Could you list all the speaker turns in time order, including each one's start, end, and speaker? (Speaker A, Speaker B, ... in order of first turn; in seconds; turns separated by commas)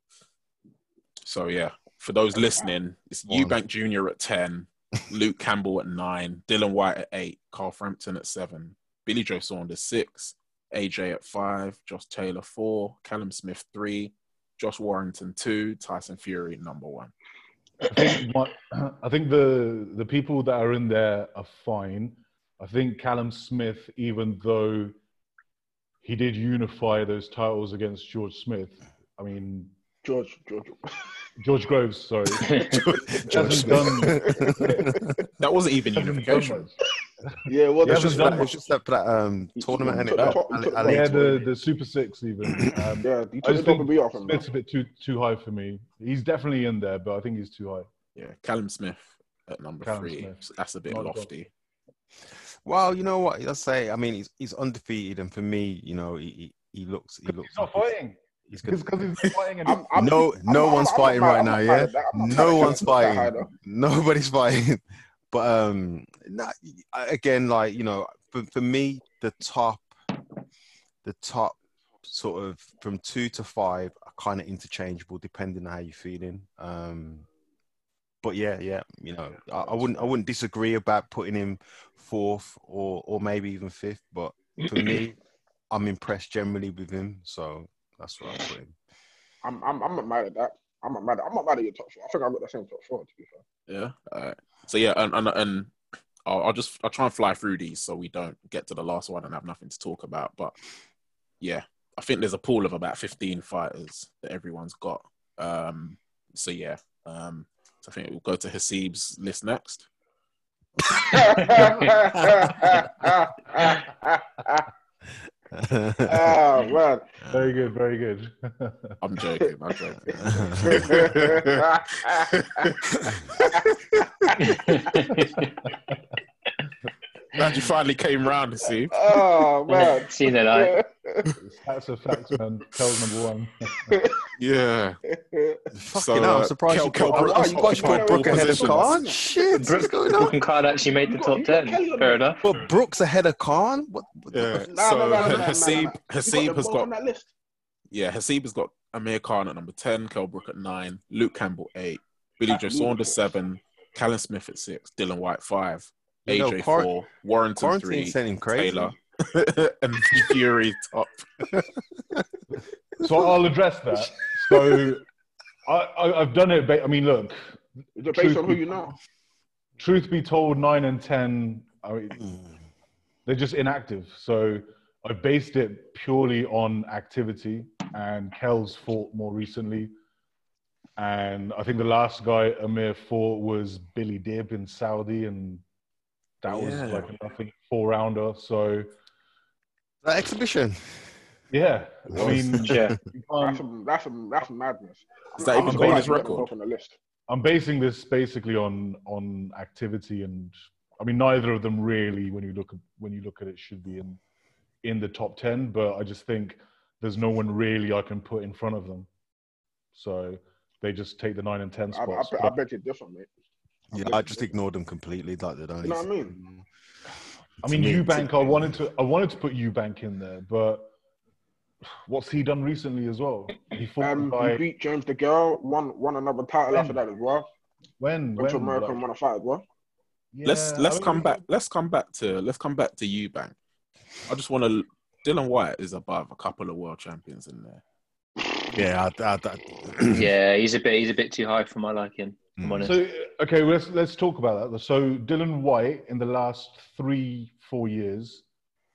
Speaker A: 1.2-17.1, Speaker B: 3.3-3.6, Speaker C: 17.9-24.9, Speaker C: 26.0-29.7, Speaker D: 30.0-30.9, Speaker C: 31.4-32.6, Speaker E: 32.4-32.8, Speaker B: 32.7-35.0, Speaker C: 33.3-34.7, Speaker D: 34.0-35.0, Speaker A: 35.4-36.7, Speaker C: 36.0-36.8, Speaker D: 37.5-38.5, Speaker C: 37.8-38.5, Speaker B: 37.9-41.1, Speaker D: 39.6-41.5, Speaker C: 40.8-47.9, Speaker D: 43.0-44.5, Speaker A: 48.2-51.5, Speaker C: 49.8-51.5, Speaker B: 52.6-57.9, Speaker C: 57.3-59.9, Speaker B: 58.5-58.8, Speaker D: 59.6-63.5, Speaker B: 60.0-69.9, Speaker B: 71.0-77.2, Speaker B: 78.2-85.2, Speaker D: 79.7-80.1, Speaker B: 85.7-88.7, Speaker D: 89.4-93.4, Speaker A: 93.7-95.7, Speaker A: 96.3-100.6, Speaker A: 101.4-109.9, Speaker D: 111.0-114.7, Speaker B: 115.5-116.4, Speaker D: 116.1-117.1, Speaker C: 117.3-119.0, Speaker A: 119.0-123.4, Speaker B: 120.2-121.1, Speaker D: 120.2-122.7, Speaker D: 123.4-123.7, Speaker D: 124.3-124.6, Speaker E: 124.4-125.5, Speaker A: 127.3-128.9, Speaker D: 128.9-131.3, Speaker E: 129.7-130.8, Speaker C: 131.4-134.0, Speaker D: 133.9-134.2, Speaker A: 134.4-135.0, Speaker D: 135.1-135.6, Speaker B: 135.7-140.4, Speaker A: 135.9-138.9, Speaker D: 137.1-139.4, Speaker C: 138.2-138.9, Speaker E: 139.6-142.4, Speaker D: 141.1-142.3, Speaker B: 142.4-145.3, Speaker A: 144.3-146.9, Speaker D: 144.7-147.3, Speaker A: 147.9-161.4, Speaker D: 152.5-153.2, Speaker B: 156.3-156.9, Speaker B: 157.6-158.9, Speaker C: 163.0-165.1, Speaker C: 165.7-167.6, Speaker D: 168.0-168.9, Speaker C: 168.1-168.9, Speaker C: 169.8-172.2, Speaker C: 173.3-179.9, Speaker C: 181.0-185.6, Speaker C: 186.4-188.9, Speaker B: 186.5-187.1, Speaker B: 190.0-191.1, Speaker C: 191.5-193.6, Speaker B: 192.1-193.0, Speaker E: 192.6-193.0, Speaker D: 193.4-197.0, Speaker A: 195.4-196.5, Speaker C: 195.6-196.2, Speaker C: 197.3-204.2, Speaker C: 204.8-209.1, Speaker C: 209.9-212.6, Speaker D: 211.9-213.3, Speaker B: 213.9-216.6, Speaker D: 213.9-214.5, Speaker D: 215.8-216.4, Speaker B: 217.6-218.8, Speaker C: 217.6-220.9, Speaker C: 222.1-224.6, Speaker D: 224.0-227.5, Speaker C: 226.7-227.0, Speaker C: 228.0-229.0, Speaker D: 228.4-229.6, Speaker C: 230.3-231.4, Speaker A: 230.4-233.5, Speaker A: 234.3-237.8, Speaker B: 238.7-240.3, Speaker E: 240.1-243.0, Speaker B: 242.6-242.9, Speaker C: 242.8-248.4